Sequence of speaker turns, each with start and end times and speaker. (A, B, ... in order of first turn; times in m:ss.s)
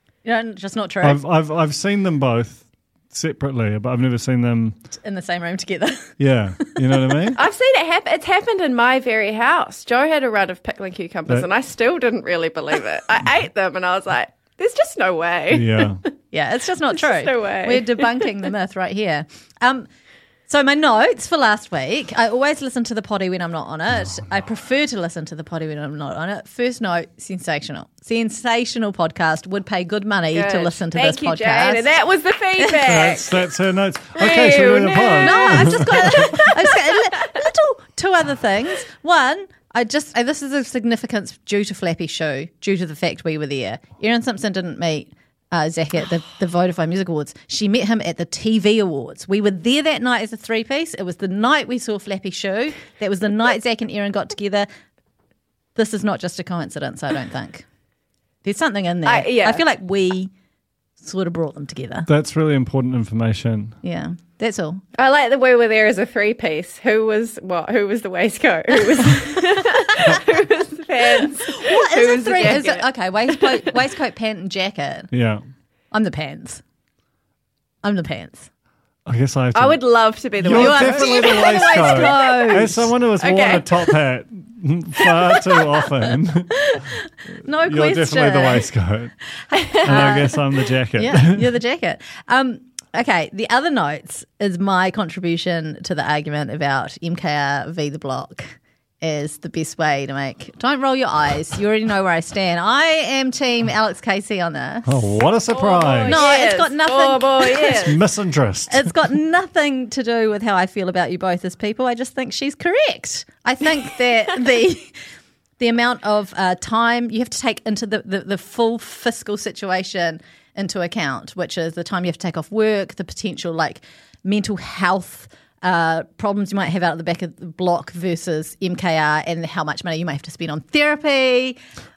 0:00.2-0:01.2 A
0:01.0-0:04.8 B
0:04.9-0:06.2 A
0:06.2-0:07.4 B
0:06.8-0:07.2 A
0:07.4-0:16.1 C
0:15.5-0:16.0 B
0:16.3-0:19.9 A
0:16.9-0:18.3 C
0:20.5-0:31.9 A
0:30.3-0:33.5 C
0:32.8-0:36.2 B
0:34.2-0:37.2 C
0:35.2-0:54.7 A
0:55.8-0:57.6 A
0:58.4-1:00.3 A
0:59.0-0:59.6 C
1:01.0-1:02.1 A
1:02.1-1:03.8 B
1:03.8-1:04.8 A
1:05.0-1:13.7 C
1:11.4-1:15.1 A
1:15.1-1:15.4 B
1:15.9-1:16.6 A
1:17.8-1:18.5 A
1:19.1-1:19.8 B
1:19.6-1:22.1 C
1:20.4-1:26.8 B
1:20.4-1:22.9 A
1:23.2-1:24.0 C
1:25.3-1:25.7 C
1:27.4-1:28.7 A
1:27.6-1:29.1 B
1:29.6-1:30.3 C
1:29.8-1:45.1 A
1:29.8-1:31.5 B
1:44.9-1:46.2 B
1:45.5-1:48.1 C
1:46.0-1:47.9 A
1:47.6-1:48.9 B
1:48.7-1:55.0 A
1:55.6-2:11.6 A